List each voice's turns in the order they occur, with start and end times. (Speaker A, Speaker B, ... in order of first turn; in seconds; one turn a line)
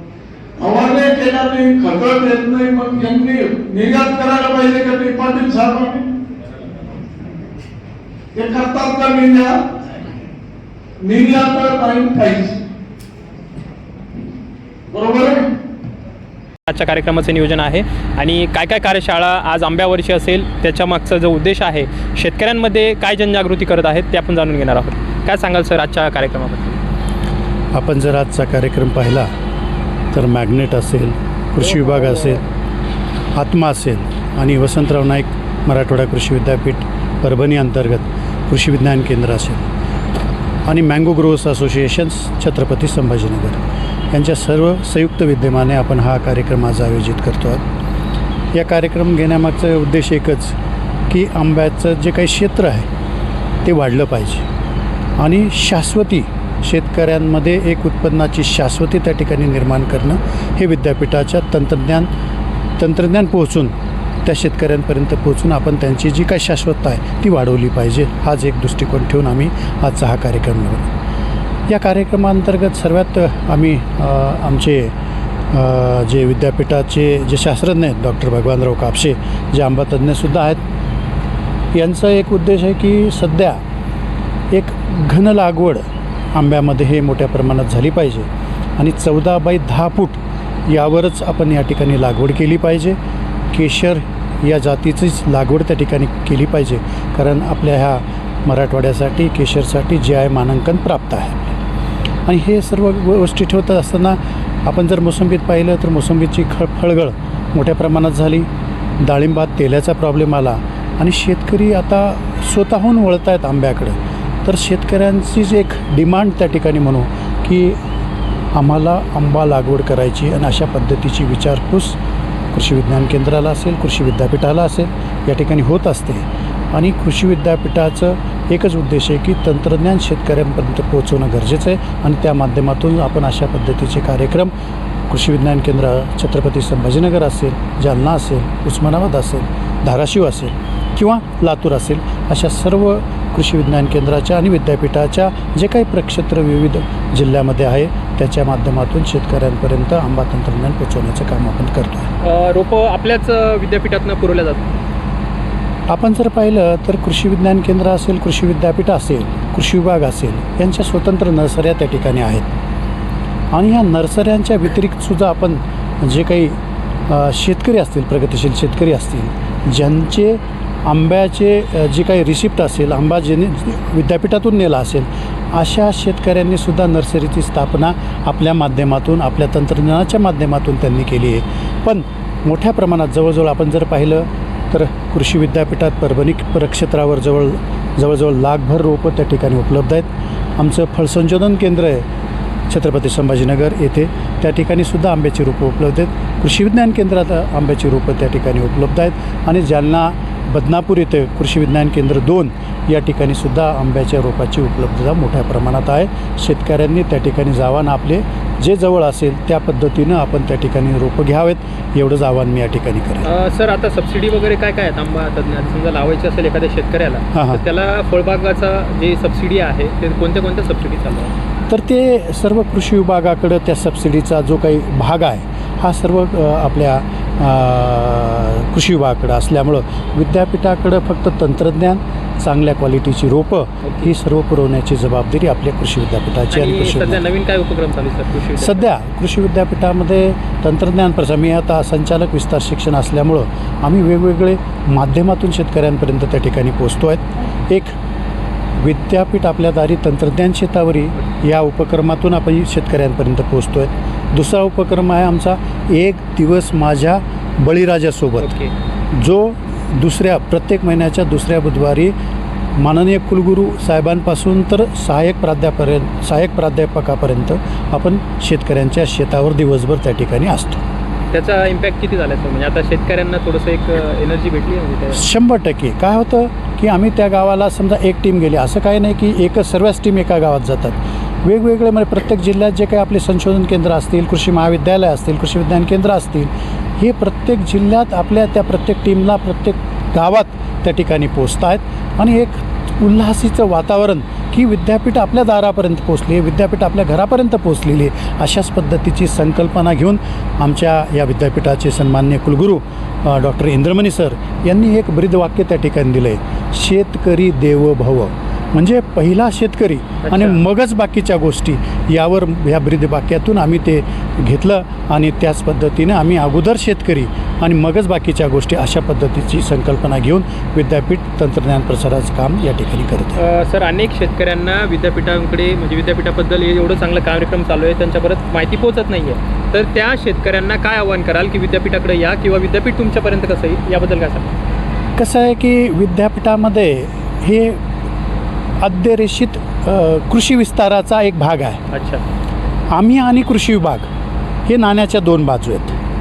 Speaker A: 0.6-6.1
Speaker A: 8.3-9.6
Speaker A: 11.0-12.6
Speaker A: 14.9-15.4
Speaker B: 16.7-26.8
Speaker C: 27.7-29.3
Speaker C: 30.1-32.4
Speaker B: 31.6-32.4
Speaker C: 33.4-39.7
Speaker C: 40.7-47.6
Speaker C: 48.5-50.6
Speaker C: 51.1-52.9
Speaker C: 53.6-54.5
Speaker C: 55.2-62.1
Speaker C: 62.8-70.9
Speaker C: 71.7-74.9
Speaker C: 75.5-80.6
Speaker C: 81.7-83.6
Speaker C: 84.5-93.0
Speaker C: 93.5-101.6
Speaker C: 102.3-108.5
Speaker C: 109.0-117.8
Speaker C: 118.5-122.0
Speaker C: 122.5-134.5
Speaker C: 135.1-152.1
Speaker B: 152.2-154.7
Speaker C: 155.9-162.5
Speaker C: 163.5-166.6
Speaker C: 167.1-192.1
Speaker C: 192.7-213.3
Speaker B: 213.2-221.3
Speaker C: 217.3-217.6
Speaker C: 221.7-237.2
Speaker B: 233.8-234.1
Speaker B: 236.5-238.9
Speaker C: 238.6-247.9
Speaker C: 248.8-258.5
Speaker B: 258.4-258.7
Speaker C: 259.1-262.1
Speaker C: 262.8-270.8
Speaker B: 271.3-275.2
Speaker C: 275.1-323.4
Speaker B: 310.3-310.6
Speaker B: 323.4-334.6
Speaker C: 335.2-337.8
Speaker C: 338.8-341.8
Speaker B: 341.9-342.2
Speaker C: 342.9-344.1
Speaker C: 344.7-346.0